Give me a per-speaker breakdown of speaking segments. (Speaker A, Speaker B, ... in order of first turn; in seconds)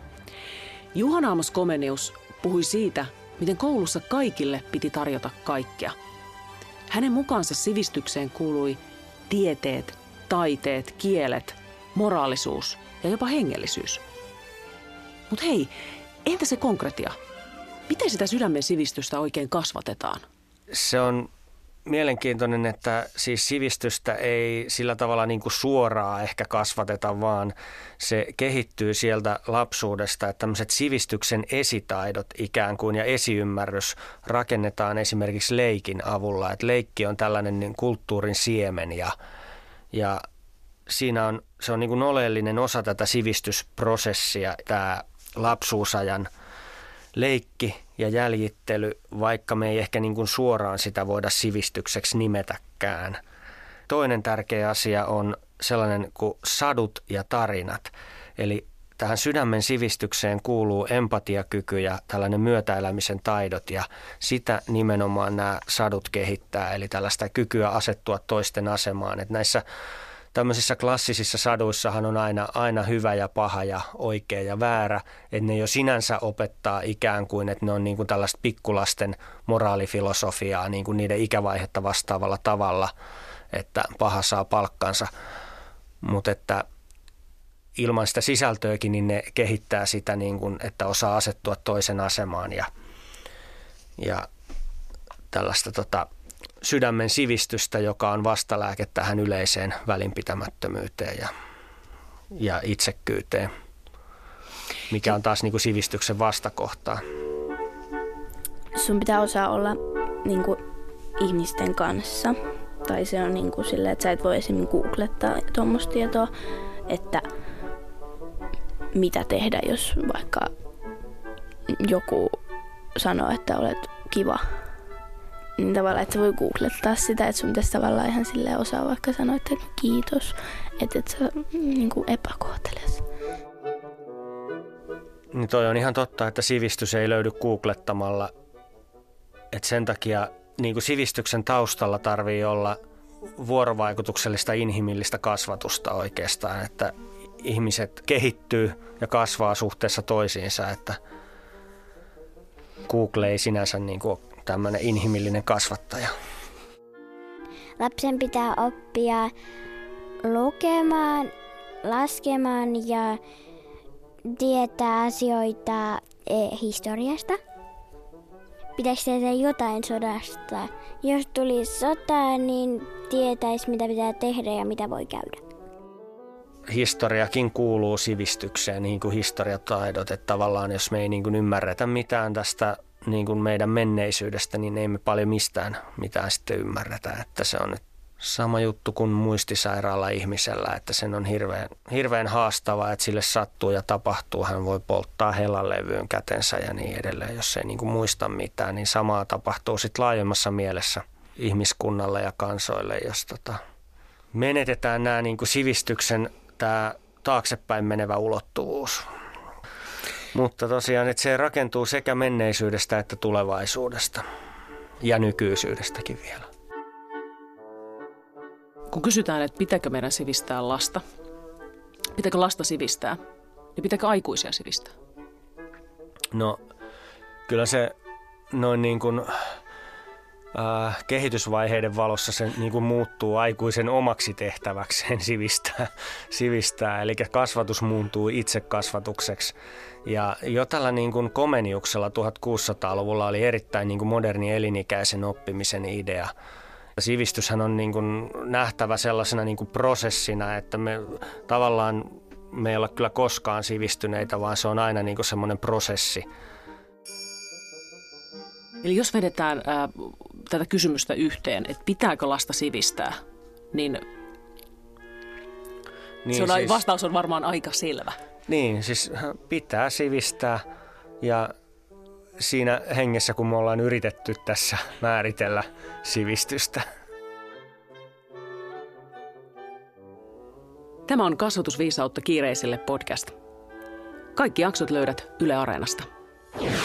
Speaker A: 0.9-5.9, 6.9-14.0, 15.3-15.7, 16.2-17.2, 17.9-20.2, 218.9-221.0, 222.1-223.2, 223.8-224.9, 258.8-263.1, 263.7-264.0, 266.3-268.2, 281.1-283.3, 284.3-286.1
Speaker B: 20.7-21.3, 21.9-39.1, 39.9-40.2, 40.9-46.3, 47.1-53.2, 53.9-69.6, 70.3-82.9, 83.5-85.1, 86.0-86.6, 87.8-92.7, 94.0-94.2, 95.3-96.0, 96.6-101.3, 102.4-103.5, 104.9-107.0, 135.3-138.3, 139.5-142.8, 143.4-151.0, 152.9-156.1, 176.7-203.6, 204.3-209.1, 210.3-214.2, 215.0-216.5, 226.3-226.6, 227.5-227.9, 228.5-229.3, 230.5-239.5, 240.1-246.3, 247.0-256.2, 266.2-266.8, 268.5-270.6, 271.2-271.5, 272.4-276.8
Speaker C: 108.8-110.6, 111.2-112.3, 112.8-116.3, 116.9-117.2, 118.9-120.5, 121.7-122.4, 123.0-124.4, 125.6-133.0
Speaker D: 157.8-159.3, 160.2-161.3, 161.8-163.2, 164.3-167.4, 168.8-175.4